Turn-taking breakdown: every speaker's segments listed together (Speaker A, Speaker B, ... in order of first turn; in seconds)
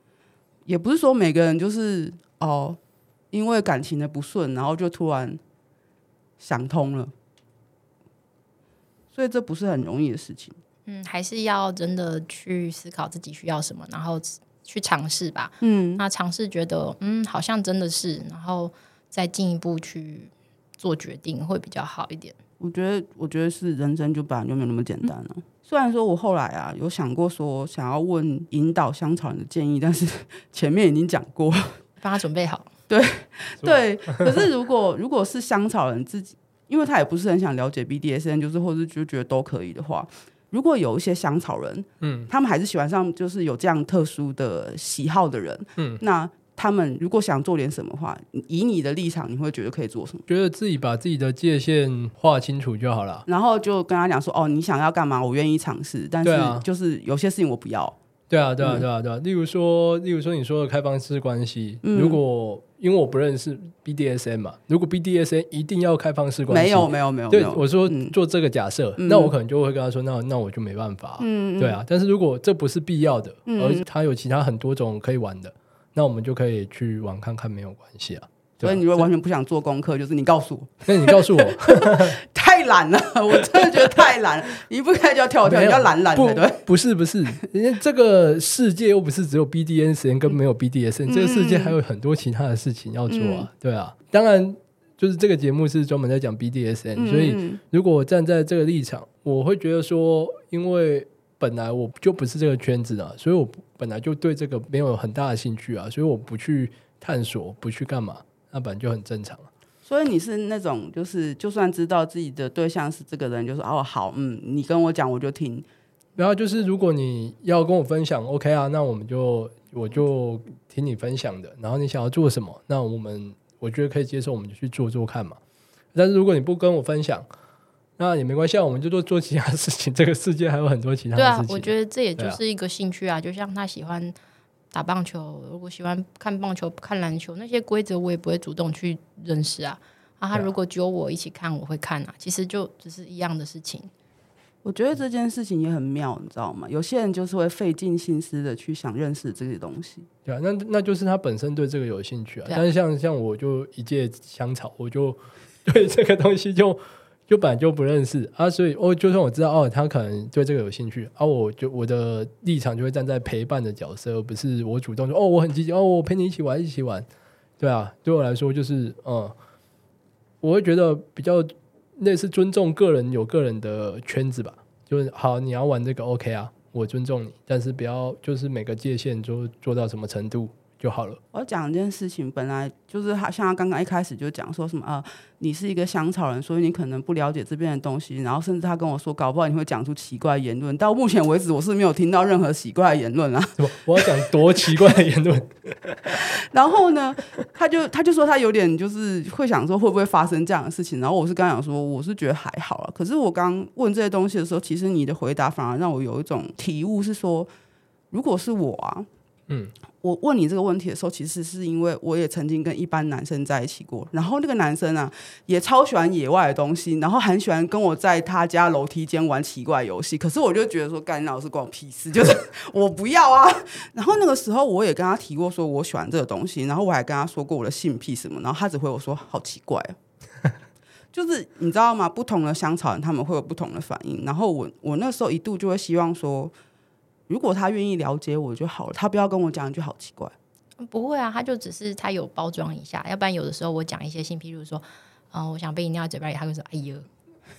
Speaker A: 0.7-2.8, 3.3-5.4, 6.4-7.1, 9.1-10.6, 15.6-16.0, 22.6-31.8, 32.9-50.3, 53.2-58.0, 58.6-58.9, 61.8-62.2, 66.5-68.1, 69.0-69.3, 71.2-71.8, 73.5-73.8, 78.6-86.6, 91.1-91.8, 93.1-93.5, 97.0-97.6, 109.8-115.7, 144.6-150.1, 181.3-194.1, 196.1-207.5, 208.1-209.1, 210.0-229.9, 231.1-236.5, 237.3-240.3
Speaker B: 10.9-22.4, 32.0-32.7, 131.2-134.1, 134.7-143.9, 240.8-247.1
Speaker C: 42.0-42.3, 50.3-53.2, 56.2-56.6, 58.3-79.0, 80.8-82.2, 85.4-109.5, 116.2-125.4, 125.9-127.2, 128.0-132.4, 150.2-167.0, 167.6-169.3, 170.4-181.2, 193.6-196.2